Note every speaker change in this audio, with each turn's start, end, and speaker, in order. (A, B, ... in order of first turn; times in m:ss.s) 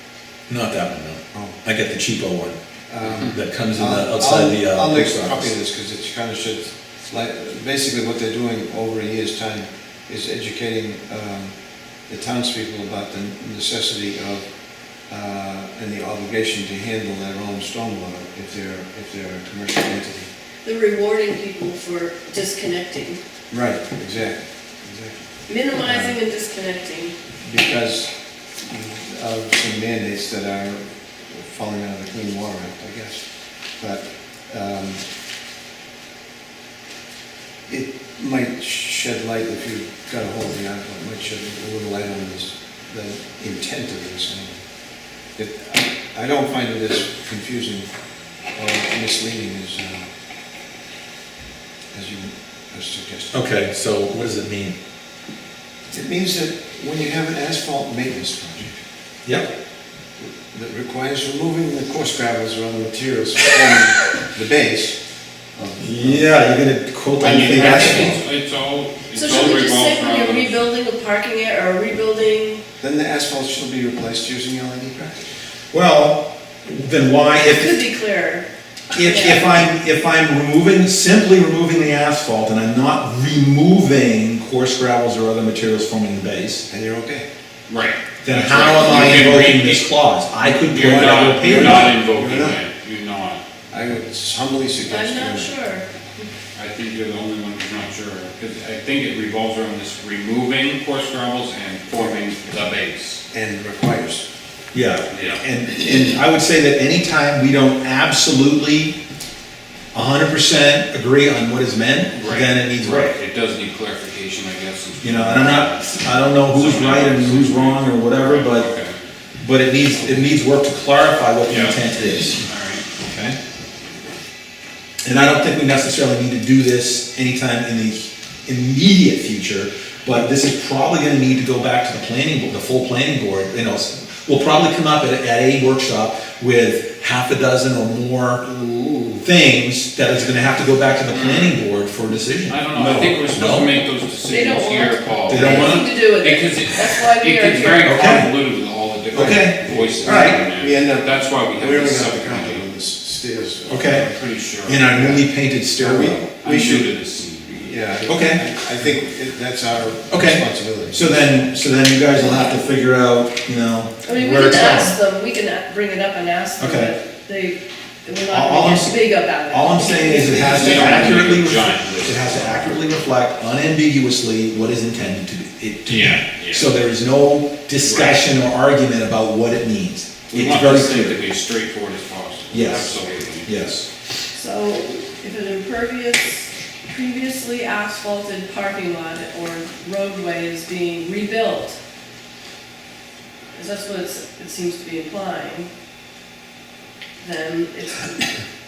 0:00.5-0:02.6 A
0:02.9-0:11.5 B
0:03.1-0:05.5 A
0:12.0-0:14.5 B
0:15.0-0:20.3 B
0:20.6-0:23.2 C
0:23.5-0:26.2 B
0:25.5-0:27.1 C
0:27.4-0:28.1 B
0:28.6-0:33.2 B
0:33.8-0:35.0 B
0:37.7-0:44.6 B
0:45.4-0:47.9 B
0:48.5-0:50.1 B
0:51.9-0:53.4 B
0:53.3-0:54.8 A
0:55.9-0:58.8 B
1:00.3-1:05.0 B
1:05.5-1:06.3 B
1:05.8-1:08.2 A
1:07.2-1:08.2 B
1:07.2-1:10.6 D
1:09.1-1:12.6 C
1:12.8-1:15.3 B
1:15.7-1:17.8 A
1:17.4-1:19.5 C
1:18.9-1:26.6 A
1:26.7-1:27.2 B
1:27.7-1:29.8 D
1:28.2-1:31.9 A
1:30.6-1:33.4 D
1:31.2-1:32.6 B
1:33.7-1:35.5 B
1:34.9-1:36.3 C
1:36.5-1:43.2 D
1:43.3-1:44.2 B
1:44.7-1:48.9 A
1:45.1-1:45.4 D
1:49.9-1:53.1 A
1:52.1-1:59.0 D
1:55.0-1:58.7 A
1:59.4-2:02.4 A
2:01.5-2:02.8 D
2:03.0-2:03.4 A
2:05.0-2:18.4 A
2:18.4-2:19.2 B
2:19.2-2:23.7 A
2:21.0-2:21.6 D
2:22.5-2:32.6 D
2:24.3-2:27.9 C
2:25.3-2:25.8 A
2:27.8-2:28.3 A
2:29.1-2:30.4 A
2:29.1-2:34.2 B
2:33.7-2:34.1 A
2:34.0-2:35.2 D
2:34.6-2:36.3 A
2:35.8-2:36.9 B
2:36.4-2:37.7 D
2:37.5-2:41.4 B
2:38.1-2:38.4 A
2:40.1-2:45.0 A
2:42.2-2:42.5 C
2:44.0-2:51.0 C
2:46.6-2:46.9 A
2:48.3-3:01.2 A
2:50.5-2:53.0 D
2:55.9-2:56.7 D
2:57.8-2:58.2 D
3:00.3-3:03.5 D
3:02.5-3:03.8 A
3:04.3-3:11.8 C
3:13.6-3:15.7 C
3:17.2-3:18.3 C